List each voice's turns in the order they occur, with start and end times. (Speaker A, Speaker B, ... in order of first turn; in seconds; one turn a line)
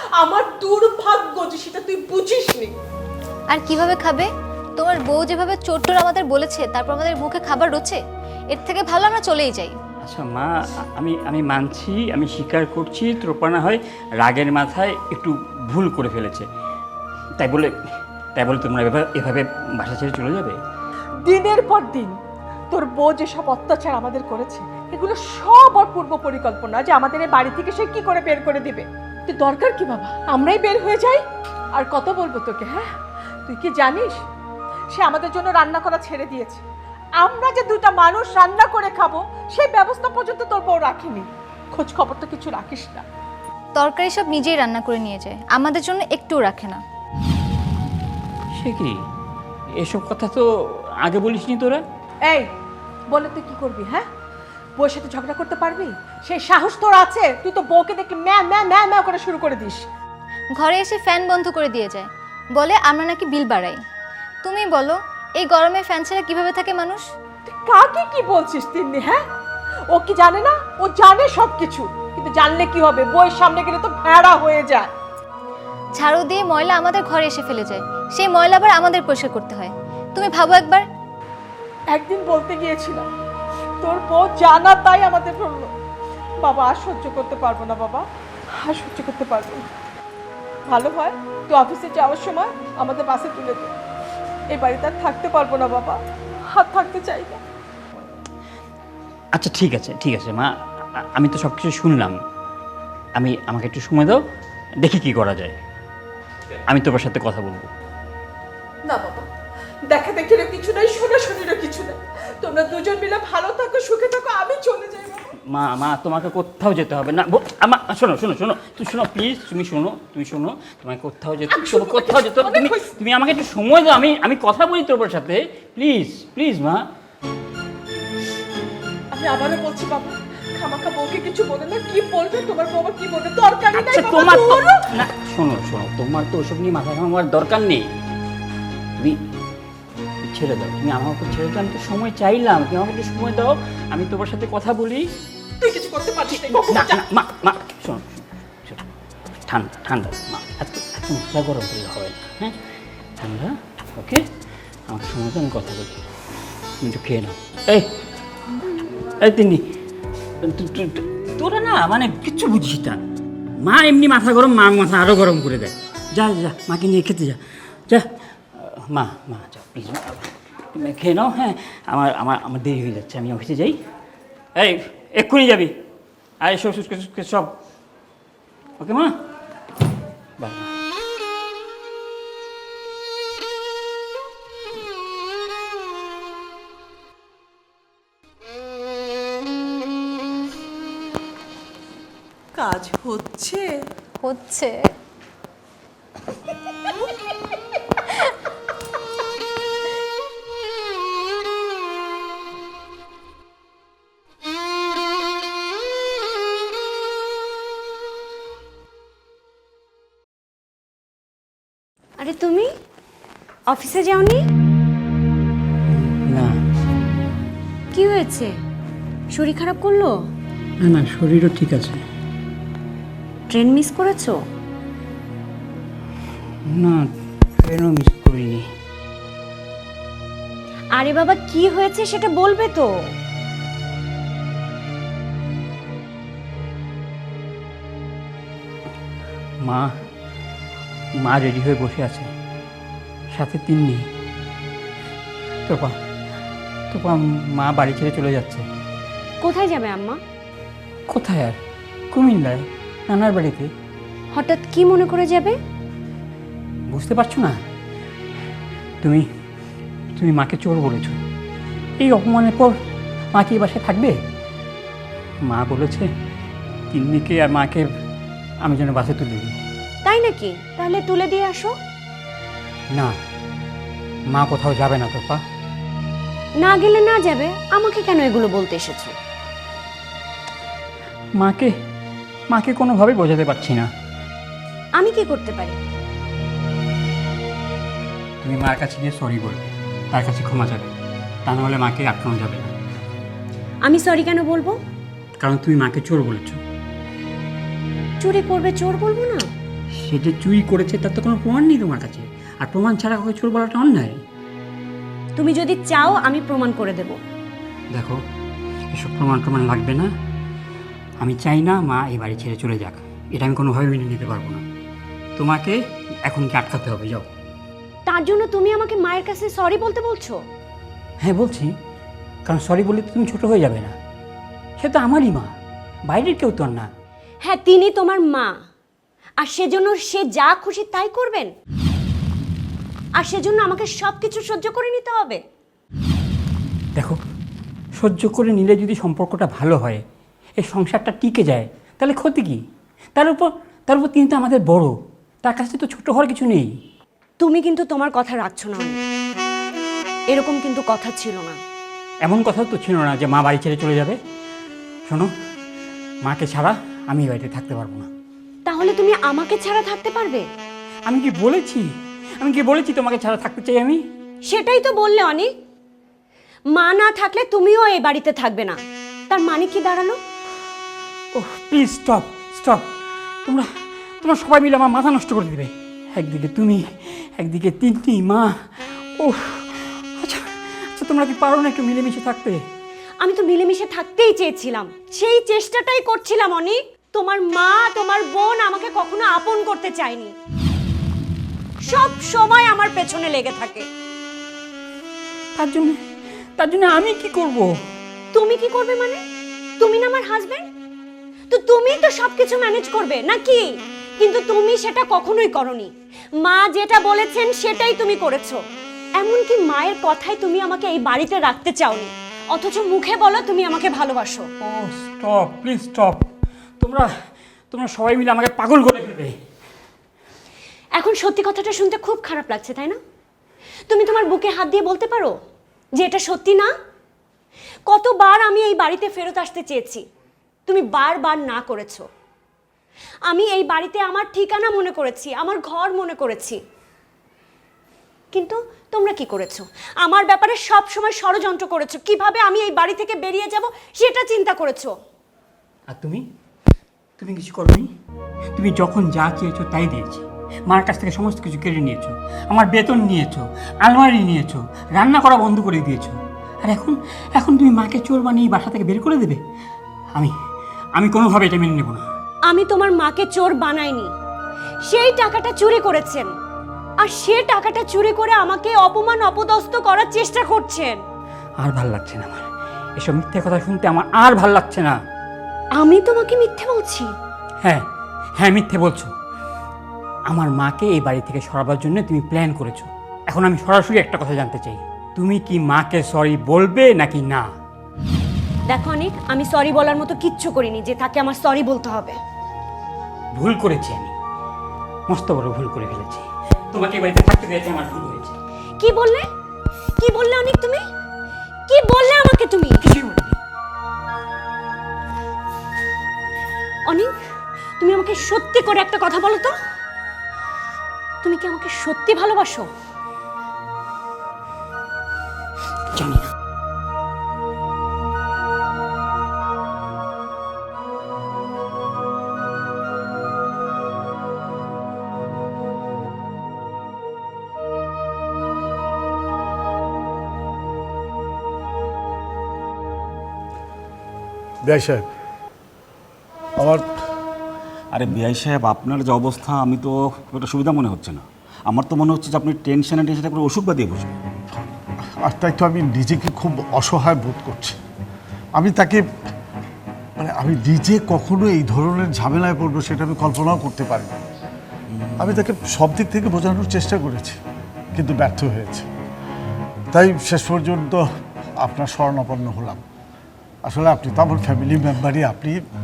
Speaker A: 0.2-2.7
Speaker B: 3.5-8.0
Speaker B: 8.5-9.8
Speaker C: 10.0-16.5
Speaker C: 17.4-17.7
Speaker C: 18.4-20.6
Speaker A: 21.3-22.1
Speaker A: 22.7-31.2
Speaker A: 31.8-32.8
Speaker A: 33.5-34.1
Speaker A: 35.0-36.6
Speaker A: 37.2-43.0
Speaker B: 43.8-46.8
Speaker C: 48.6-49.0
Speaker C: 49.8-51.8
Speaker A: 53.1-54.0
Speaker A: 54.8-59.8
Speaker B: 60.6-63.8
Speaker B: 64.4-67.0
Speaker A: 67.5-69.2
Speaker A: 69.9-74.9
Speaker B: 76.0-80.8
Speaker A: 81.9-83.1
Speaker A: 83.8-85.7
Speaker A: 86.4-88.0
Speaker A: 88.6-89.6
Speaker A: 90.7-93.7
Speaker A: 94.5-96.0
Speaker A: 96.5-97.4
Speaker C: 99.4-102.2
Speaker C: 103.2-104.2
Speaker C: 104.8-105.6
Speaker C: 106.7-107.7
Speaker A: 108.9-109.2
Speaker A: 109.9-115.2
Speaker C: 115.5-126.8
Speaker A: 129.1-134.5
Speaker C: 133.7-137.9
Speaker C: 140.2-145.1
Speaker A: 145.6-146.9
Speaker C: 146.3-148.8
Speaker C: 149.5-152.6
Speaker C: 153.2-154.2
Speaker C: 154.9-156.0
Speaker C: 156.8-157.9
Speaker C: 159.2-159.6
Speaker C: 160.4-163.0
Speaker C: 163.6-168.0
Speaker C: 168.6-173.8
Speaker C: 174.6-175.7
Speaker C: 176.4-177.6
Speaker C: 178.8-179.1
Speaker C: 180.4-180.7
Speaker B: 194.2-194.8
Speaker D: 212.2-212.7
Speaker D: 213.7-214.4
Speaker C: 215.9-216.6
Speaker D: 217.9-218.5
Speaker D: 219.3-220.1
Speaker C: 220.8-222.0
Speaker D: 223.5-224.4
Speaker C: 226.7-227.1
Speaker C: 227.6-228.7
Speaker D: 231.0-232.9
Speaker C: 241.2-242.3
Speaker C: 243.3-244.0
Speaker C: 245.7-245.9
Speaker C: 246.9-248.7
Speaker D: 249.4-250.2
Speaker C: 251.1-251.6
Speaker C: 252.1-253.7
Speaker D: 254.3-255.6
Speaker C: 256.9-257.6
Speaker C: 260.2-261.2
Speaker C: 262.0-262.8
Speaker C: 263.4-264.1
Speaker C: 265.5-266.1
Speaker C: 266.9-267.9
Speaker C: 268.6-269.5
Speaker D: 270.1-271.7
Speaker C: 274.3-275.4
Speaker D: 276.6-279.1
Speaker C: 281.4-281.7
Speaker C: 282.5-283.9
Speaker D: 285.0-285.8
Speaker C: 288.4-290.9
Speaker C: 291.5-292.7
Speaker D: 293.8-294.8
Speaker C: 295.4-296.6
Speaker D: 298.2-299.5
Speaker C: 300.0-304.2
Speaker D: 305.4-307.2
Speaker C: 307.9-308.2
Speaker C: 308.9-310.1
Speaker C: 311.2-314.6
Speaker C: 315.4-317.3
Speaker D: 318.1-320.4
Speaker C: 321.2-321.7
Speaker C: 322.5-323.9
Speaker C: 324.8-325.5
Speaker C: 326.1-326.9
Speaker D: 327.4-328.5
Speaker D: 329.4-331.5
Speaker D: 333.2-335.4
Speaker C: 338.0-340.0
Speaker C: 340.6-342.6
Speaker C: 343.2-344.9
Speaker C: 345.4-346.7
Speaker D: 347.4-349.0
Speaker D: 350.3-351.6
Speaker C: 352.2-354.2
Speaker C: 356.2-358.1
Speaker D: 358.7-360.4
Speaker C: 361.1-361.9
Speaker C: 362.4-364.0
Speaker D: 364.5-365.5
Speaker D: 366.8-368.8
Speaker D: 369.3-370.2
Speaker C: 371.4-372.8
Speaker C: 374.2-378.5
Speaker C: 379.2-382.6
Speaker D: 383.2-390.3
Speaker D: 391.9-393.9
Speaker C: 395.6-396.0
Speaker C: 396.6-397.7
Speaker D: 398.3-399.2
Speaker D: 399.8-400.6
Speaker D: 401.5-403.6
Speaker D: 404.2-405.9
Speaker D: 406.4-408.6
Speaker D: 409.2-414.5
Speaker C: 414.6-416.2
Speaker C: 416.8-417.1
Speaker C: 417.7-419.3
Speaker D: 421.0-423.0
Speaker D: 423.9-425.3
Speaker D: 426.0-426.7
Speaker D: 427.9-430.0
Speaker D: 430.7-432.0
Speaker D: 433.3-436.6
Speaker D: 438.3-444.9
Speaker C: 445.9-446.2
Speaker C: 447.2-447.9
Speaker C: 448.6-459.4
Speaker C: 461.0-462.1
Speaker D: 462.5-464.1
Speaker D: 464.9-466.3
Speaker D: 467.0-471.0
Speaker C: 471.6-472.5
Speaker C: 473.0-475.0
Speaker D: 475.8-477.1
Speaker C: 478.4-479.1
Speaker C: 480.3-487.5
Speaker D: 488.7-492.2
Speaker C: 493.3-494.1
Speaker C: 495.1-498.4
Speaker D: 498.8-499.2
Speaker D: 500.0-500.8
Speaker D: 501.7-502.8
Speaker C: 502.8-503.4
Speaker D: 507.8-509.5
Speaker D: 511.2-512.7
Speaker C: 516.0-516.2
Speaker E: 534.6-535.0
Speaker E: 536.6-536.9
Speaker F: 537.9-544.1
Speaker E: 545.3-547.8
Speaker E: 548.6-549.0
Speaker E: 550.2-554.2
Speaker E: 555.2-557.4
Speaker E: 558.0-558.9
Speaker E: 559.9-561.0
Speaker E: 561.6-562.8
Speaker E: 563.7-565.6